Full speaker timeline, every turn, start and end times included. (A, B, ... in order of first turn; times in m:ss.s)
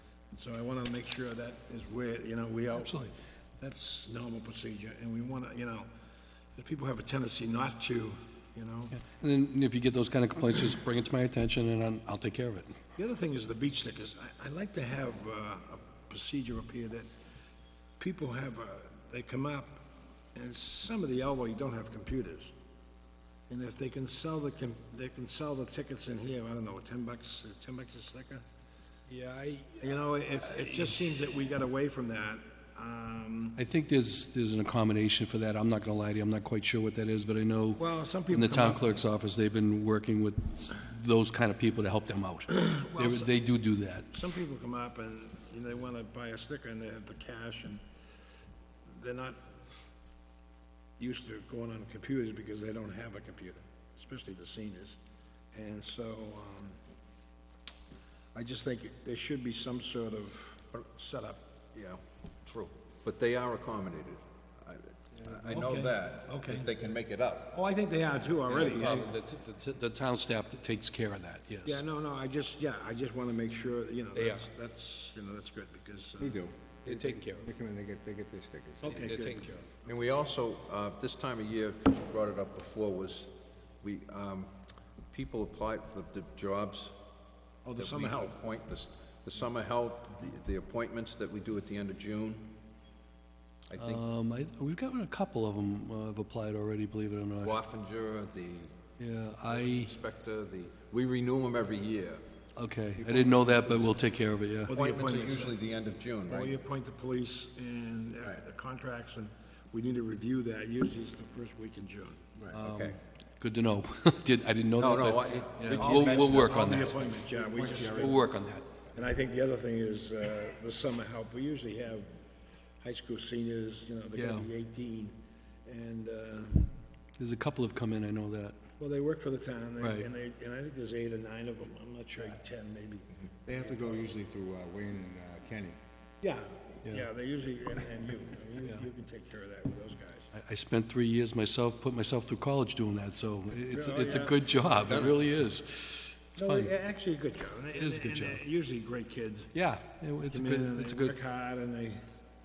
0:00.3-0:05.9 A
0:02.8-0:03.1 B
0:06.5-0:09.0 A
0:09.0-0:12.8 B
0:13.0-0:17.1 A
0:18.0-0:19.8 A
0:20.3-0:22.5 A
0:23.5-0:28.4 A
0:29.1-0:29.8 B
0:29.8-0:33.6 A
0:33.6-0:44.1 B
0:37.8-0:39.0 A
0:42.5-0:43.5 A
0:44.1-0:47.8 A
0:48.9-0:49.4 A
0:51.0-0:55.0 A
0:55.5-0:56.8 A
0:58.3-1:01.4 A
1:01.7-1:07.6 C
1:05.5-1:06.7 A
1:07.5-1:09.1 A
1:08.5-1:08.9 C
1:08.6-1:11.8 B
1:11.6-1:16.4 A
1:14.1-1:14.4 B
1:16.2-1:19.1 D
1:16.8-1:17.5 B
1:18.8-1:20.0 A
1:18.9-1:19.6 B
1:19.8-1:23.3 C
1:23.8-1:24.5 C
1:25.1-1:26.9 C
1:27.6-1:28.4 A
1:27.8-1:32.5 C
1:33.7-1:34.0 C
1:33.8-1:37.5 B
1:37.4-1:38.8 C
1:39.0-1:39.9 B
1:39.4-1:42.2 C
1:42.6-1:44.7 B
1:43.0-1:44.0 D
1:44.7-1:45.6 A
1:44.7-1:46.5 C
1:46.3-1:52.2 A
1:52.5-1:57.0 B
1:52.6-1:53.0 C
1:54.8-1:56.7 C
1:55.8-1:58.2 A
1:56.8-1:58.2 D
1:57.9-1:58.6 B
1:58.9-2:02.1 A
2:02.8-2:06.8 A
2:04.2-2:04.5 B
2:07.2-2:08.6 B
2:08.8-2:14.0 A
2:09.8-2:10.1 B
2:13.4-2:15.8 D
2:16.2-2:20.3 A
2:20.3-2:26.7 B
2:23.7-2:24.4 A
2:26.4-2:29.5 A
2:27.7-2:28.4 B
2:29.5-2:31.1 B
2:30.3-2:32.0 A